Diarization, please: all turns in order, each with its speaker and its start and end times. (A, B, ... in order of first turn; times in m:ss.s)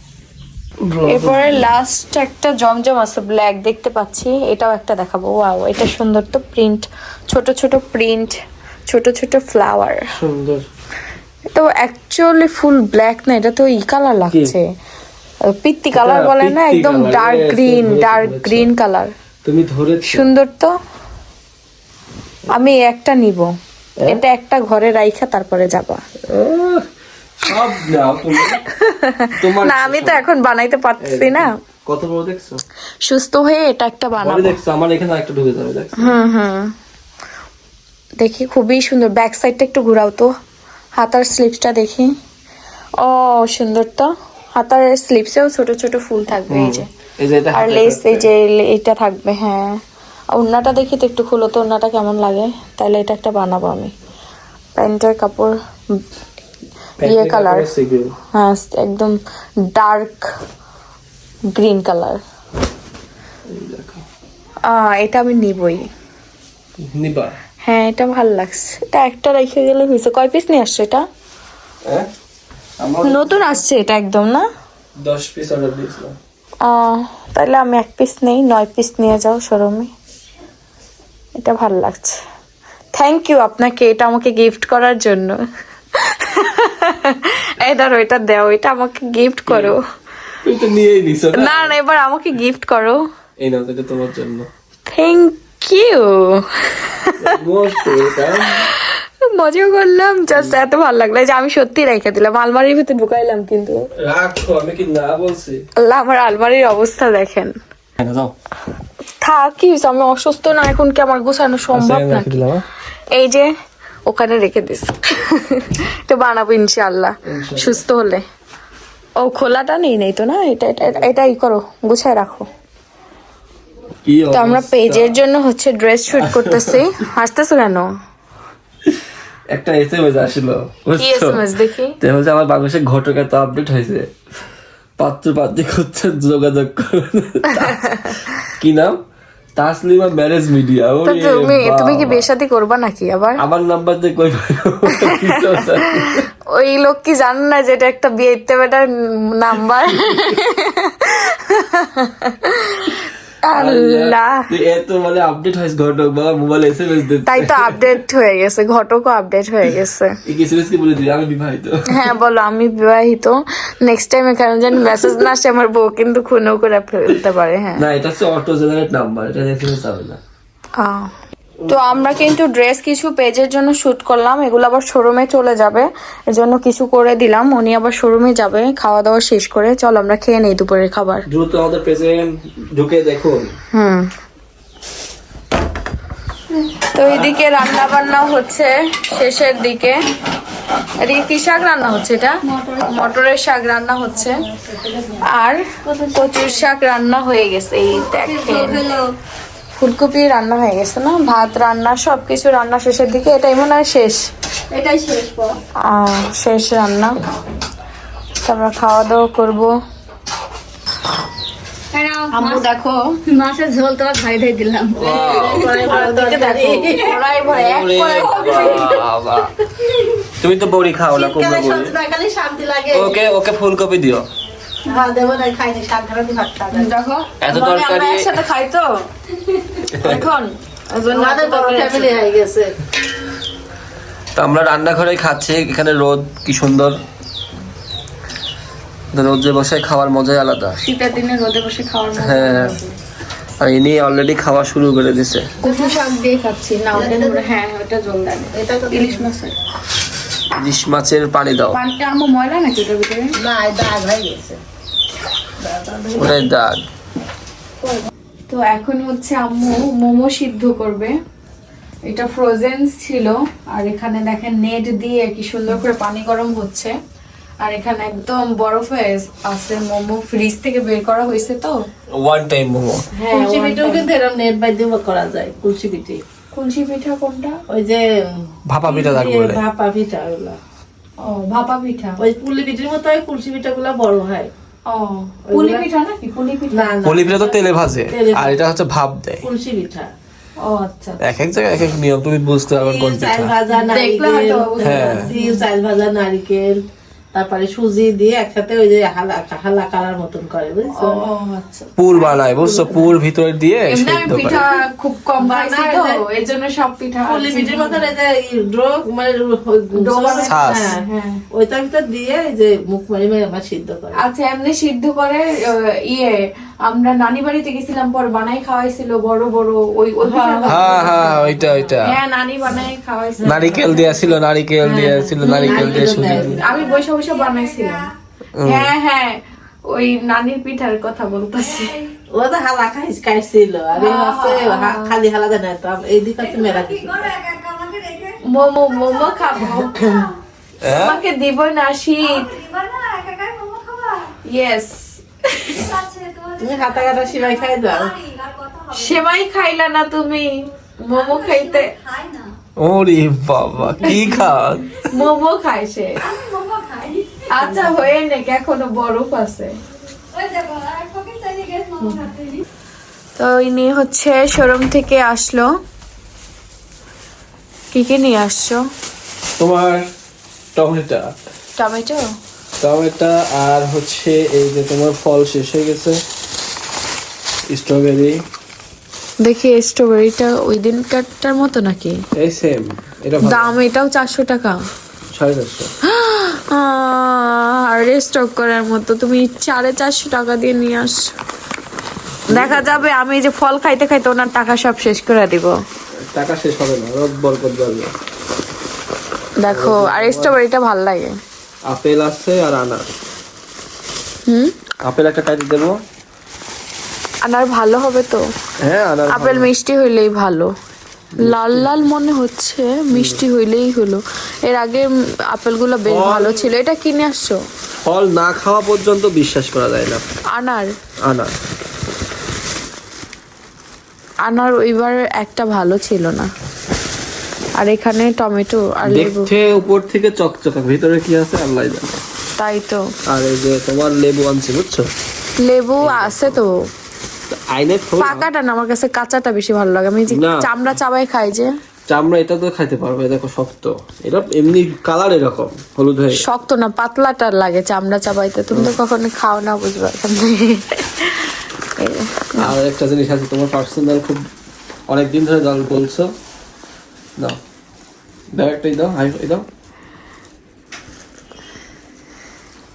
0:00.8-0:01.6 A
0:01.1-0:08.3 B
0:08.9-0:10.1 B
0:10.1-0:10.6 A
0:11.5-0:14.6 B
0:15.5-0:19.1 B
0:15.9-0:18.7 A
0:19.4-0:20.3 A
0:20.0-0:20.7 B
0:22.5-0:23.5 B
0:24.1-0:26.0 B
0:26.3-0:26.8 A
0:27.4-0:28.6 A
0:28.3-0:31.5 B
0:29.4-0:30.2 A
0:31.0-0:32.6 A
0:33.0-0:34.6 B
0:34.2-0:36.2 A
0:36.0-0:36.7 B
0:38.2-0:40.3 B
0:41.0-0:42.1 B
0:43.0-0:46.9 B
0:46.5-0:48.3 A
0:47.5-0:49.8 B
0:50.3-0:53.9 B
0:54.8-0:55.5 B
0:57.0-0:58.2 A
0:57.0-0:57.7 B
0:58.3-0:59.1 B
0:59.7-1:00.3 B
1:01.5-1:02.2 B
1:03.5-1:04.0 A
1:04.6-1:05.9 B
1:06.8-1:07.4 A
1:07.6-1:11.0 B
1:12.8-1:13.6 A
1:13.0-1:14.5 B
1:15.0-1:16.2 A
1:16.6-1:19.9 B
1:21.4-1:22.2 B
1:22.9-1:25.4 B
1:26.0-1:29.8 B
1:29.5-1:29.8 A
1:30.4-1:31.7 A
1:31.3-1:33.0 B
1:33.4-1:34.5 A
1:34.9-1:43.8 B
1:37.2-1:38.7 A
1:44.0-1:45.6 A
1:45.8-1:47.5 B
1:48.0-1:48.3 A
1:49.2-1:52.4 B
1:51.7-1:52.6 A
1:53.1-1:53.5 B
1:54.1-1:58.2 B
1:57.2-1:57.8 A
1:59.2-2:02.5 B
2:04.0-2:05.2 A
2:04.3-2:07.9 B
2:06.1-2:06.8 A
2:09.5-2:11.4 A
2:11.0-2:11.9 B
2:12.0-2:14.1 A
2:15.0-2:19.0 A
2:17.6-2:18.2 B
2:19.6-2:22.3 A
2:21.0-2:23.4 B
2:23.4-2:26.2 A
2:24.9-2:34.4 B
2:33.5-2:38.0 A
2:37.3-2:40.1 B
2:40.2-2:42.1 A
2:41.9-2:47.8 B
2:47.8-2:50.2 A
2:50.8-2:51.1 B
2:51.7-3:01.2 B
3:01.3-3:03.5 A
3:03.7-3:04.1 B
3:06.9-3:10.0 B
3:11.0-3:14.4 B
3:12.4-3:13.0 C
3:14.2-3:15.2 C
3:15.2-3:18.8 B
3:15.8-3:16.6 C
3:17.9-3:19.1 C
3:19.8-3:24.2 B
3:24.7-3:25.6 C
3:25.8-3:27.1 B
3:28.4-3:29.7 B
3:31.9-3:32.7 C
3:32.3-3:33.0 B
3:33.3-3:35.8 C
3:35.0-3:35.7 A
3:35.0-3:37.2 D
3:35.8-3:39.0 B
3:37.4-3:39.5 A
3:40.4-3:41.9 A
3:41.1-3:43.2 D
3:42.9-3:44.2 A
3:44.8-3:46.9 D
3:46.7-3:48.9 B
3:47.4-3:48.3 A
3:49.9-3:50.3 A
3:50.0-3:52.2 B
3:51.1-3:52.8 D
3:54.3-3:57.0 A
3:59.1-4:00.8 A
4:00.8-4:03.0 B
4:02.2-4:02.8 A
4:03.6-4:05.5 A
4:05.6-4:09.6 B
4:06.9-4:07.5 D
4:08.5-4:09.3 D
4:10.6-4:11.8 A
4:11.7-4:13.3 B
4:13.4-4:14.6 D
4:15.6-4:16.5 D
4:16.2-4:16.8 A
4:18.5-4:21.1 B
4:22.1-4:27.0 B
4:27.6-4:31.8 B
4:32.1-4:33.0 A
4:33.2-4:36.2 D
4:33.3-4:34.1 B
4:36.5-4:37.6 B
4:37.7-4:40.6 D
4:38.7-4:39.6 A
4:41.2-4:42.2 B
4:42.2-4:44.5 D
4:44.9-4:46.9 B
4:45.5-4:45.8 D
4:46.7-4:47.6 D
4:47.0-4:49.4 A
4:48.1-4:48.6 D
4:49.4-4:50.1 D
4:50.6-4:51.2 B
4:51.2-4:53.5 A
4:52.7-4:56.8 D
4:53.8-4:55.6 B
4:54.8-4:55.3 A
4:57.3-5:01.2 D
5:00.9-5:02.0 B
5:02.0-5:04.6 A
5:02.2-5:03.0 D
5:03.9-5:08.1 B
5:05.4-5:06.2 D
5:07.2-5:11.0 D
5:09.9-5:11.4 B
5:10.4-5:10.9 A
5:11.5-5:14.2 D
5:14.2-5:24.2 B
5:20.2-5:21.5 D
5:20.6-5:22.2 A
5:23.4-5:23.9 D
5:23.4-5:26.6 A
5:24.8-5:28.1 B
5:25.6-5:26.9 D
5:26.7-5:28.1 C
5:28.5-5:28.9 A
5:28.6-5:32.0 B
5:32.3-5:37.3 D
5:34.0-5:35.1 B
5:36.4-5:40.3 C
5:38.4-5:40.2 B
5:40.8-5:41.2 A
5:40.8-5:42.5 B
5:42.2-5:44.3 C
5:44.4-5:45.9 B
5:45.8-5:49.2 C
5:46.6-5:48.2 D
5:48.9-5:51.9 B
5:51.1-5:52.5 C
5:52.8-5:54.9 A
5:54.0-5:54.4 B
5:55.0-5:56.2 B
5:56.2-5:57.8 C
5:57.5-5:59.7 B
6:00.3-6:02.6 C
6:03.4-6:05.7 B
6:07.9-6:08.8 B
6:09.6-6:10.0 A
6:10.7-6:11.3 A
6:11.8-6:12.2 B
6:12.8-6:16.2 A
6:17.7-6:18.4 A
6:19.4-6:22.2 B
6:22.3-6:23.8 A
6:23.4-6:24.8 B
6:25.3-6:25.9 A
6:26.0-6:31.3 B
6:32.5-6:33.0 A
6:32.5-6:35.8 B
6:36.2-6:38.1 A
6:39.6-6:41.3 B
6:39.7-6:40.6 A
6:41.9-6:43.1 A
6:45.0-6:46.0 A
6:47.4-6:48.4 B
6:48.8-6:49.7 A
6:49.3-6:50.7 B
6:51.4-6:52.0 A
6:51.4-6:57.6 B
6:53.1-6:53.4 A
6:56.1-6:56.7 A
6:58.0-7:00.2 A
7:00.5-7:00.9 B
7:01.2-7:01.5 A
7:04.4-7:06.5 B
7:07.8-7:09.5 B
7:09.0-7:12.2 A
7:12.6-7:13.0 B
7:13.3-7:15.1 A
7:15.6-7:16.7 B
7:16.0-7:16.6 A
7:17.5-7:18.5 A
7:18.2-7:21.7 B
7:20.3-7:20.6 A
7:22.1-7:26.5 A
7:26.3-7:32.7 B
7:32.6-7:34.4 A
7:35.1-7:36.3 A
7:38.5-7:39.6 A